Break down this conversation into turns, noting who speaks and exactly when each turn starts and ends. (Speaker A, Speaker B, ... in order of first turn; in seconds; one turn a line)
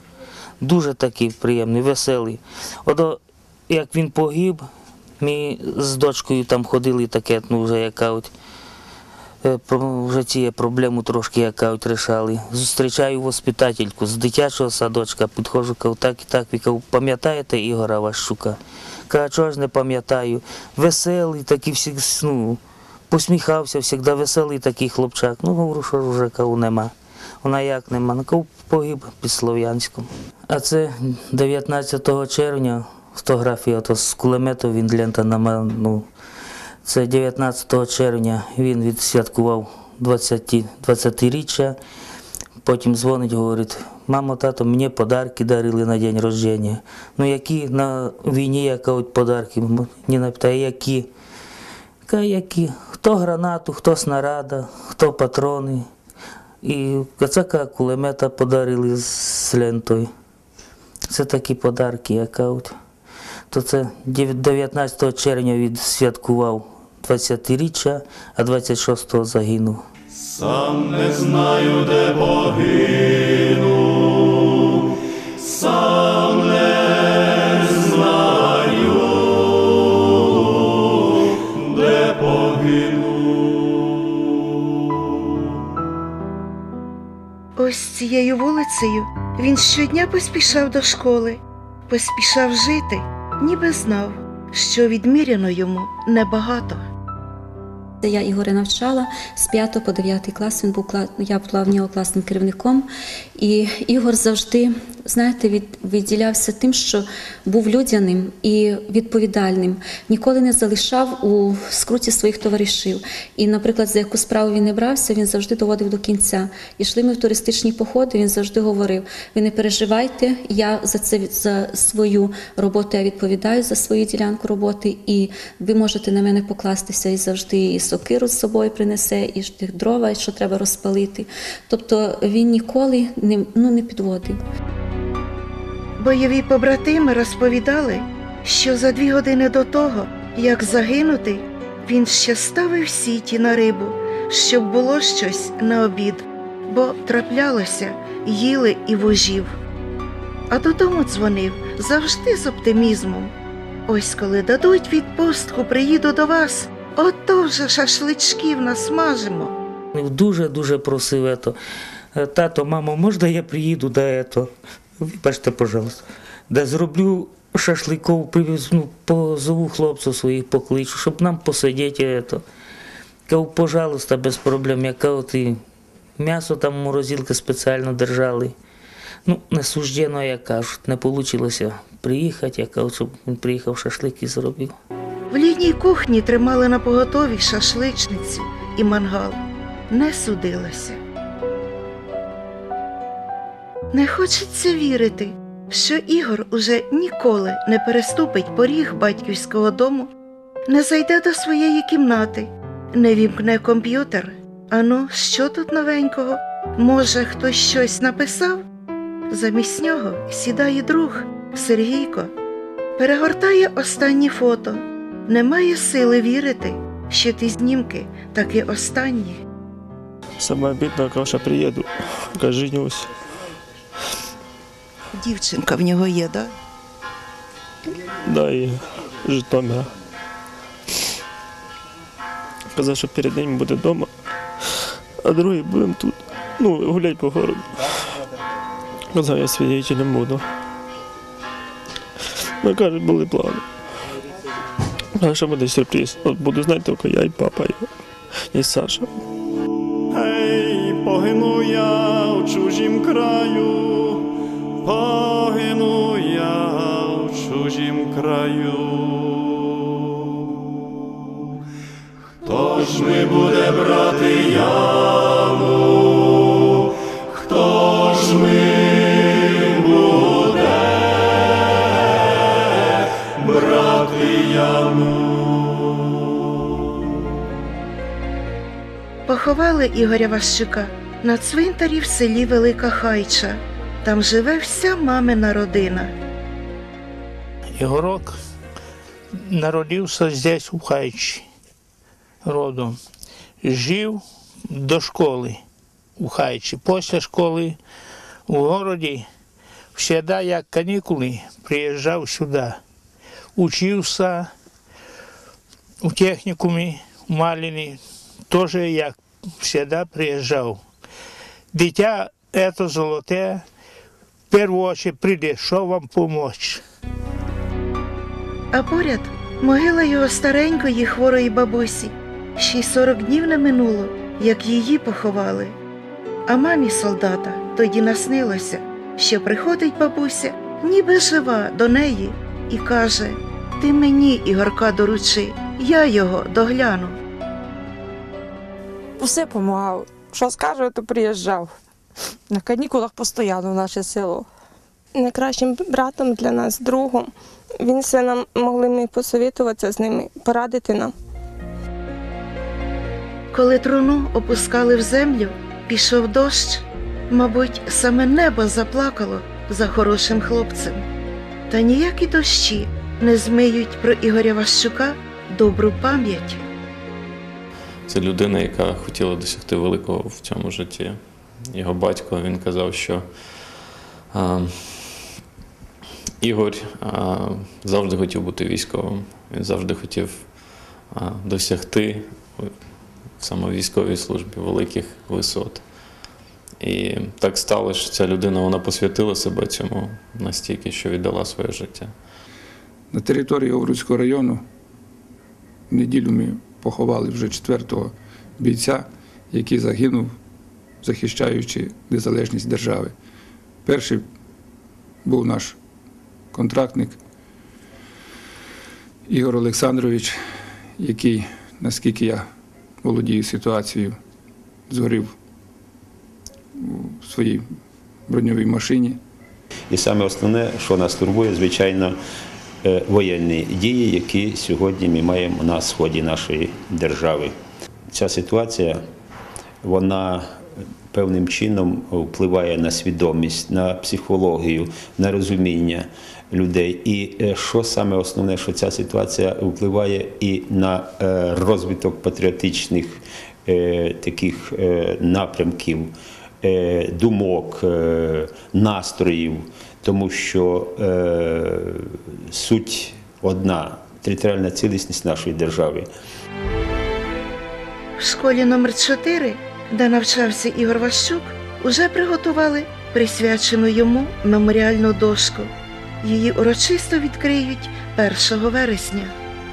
Speaker A: 0.6-4.7
Speaker A: 5.2-8.3
Speaker A: 9.4-26.9
Speaker A: 27.4-36.1
Speaker A: 36.8-41.8
Speaker A: 42.6-51.1
Speaker A: 52.1-55.9
Speaker A: 56.6-60.1
Speaker A: 61.1-62.7
Speaker A: 63.5-69.8
Speaker B: 70.2-74.8
Speaker B: 75.4-79.3
Speaker B: 81.6-83.4
Speaker C: 87.6-96.8
Speaker D: 98.0-134.4
Speaker C: 136.0-149.6
Speaker C: 150.5-153.3
Speaker C: 153.9-159.5
Speaker A: 159.9-161.6
Speaker A: 162.2-172.4
Speaker A: 173.3-175.6
Speaker A: 176.2-178.6
Speaker A: 179.3-184.8
Speaker C: 185.3-189.4
Speaker C: 189.9-191.0
Speaker C: 193.9-200.1
Speaker C: 200.7-208.6
Speaker C: 209.3-212.3
Speaker C: 213.0-219.4
Speaker E: 220.4-223.1
Speaker C: 225.1-226.5
Speaker E: 228.2-229.9
Speaker E: 232.7-234.1
Speaker E: 235.2-238.1
Speaker E: 239.1-240.5
Speaker E: 242.6-243.7
Speaker E: 245.2-247.9
Speaker E: 248.5-249.1
Speaker B: 250.1-254.3
Speaker B: 254.8-259.7
Speaker B: 262.4-266.1
Speaker B: 267.4-270.7
Speaker B: 273.4-275.1
Speaker C: 279.3-286.1
Speaker F: 287.8-288.4
Speaker F: 289.4-291.4
Speaker F: 292.4-293.0
Speaker F: 293.6-295.6
Speaker F: 296.2-297.8
Speaker F: 298.5-299.3
Speaker F: 299.9-302.8
Speaker F: 303.6-304.5
Speaker F: 306.0-310.8
Speaker F: 311.7-313.6
Speaker F: 314.5-316.8
Speaker C: 318.7-325.8
Speaker C: 326.5-337.2
Speaker G: 339.2-341.7
Speaker G: 342.5-344.5
Speaker H: 345.2-347.3
Speaker H: 347.8-351.1
Speaker C: 353.5-361.0
Speaker C: 361.7-366.6
Speaker I: 368.1-373.3
Speaker I: 374.3-375.2
Speaker I: 376.4-382.7
Speaker I: 383.4-385.9
Speaker I: 386.8-392.1
Speaker J: 393.1-394.6
Speaker J: 395.9-400.3
Speaker J: 401.0-403.1
Speaker J: 403.9-404.2
Speaker J: 405.2-405.8
Speaker J: 406.5-407.2
Speaker J: 409.3-410.4
Speaker J: 411.0-412.4
Speaker J: 413.0-414.2
Speaker J: 414.9-415.3
Speaker J: 416.8-417.7
Speaker J: 418.3-419.2
Speaker K: 419.9-422.2
Speaker K: 422.8-427.6
Speaker K: 428.1-429.0
Speaker K: 429.8-430.5
Speaker K: 431.1-456.1
Speaker C: 458.2-465.7
Speaker C: 466.2-469.3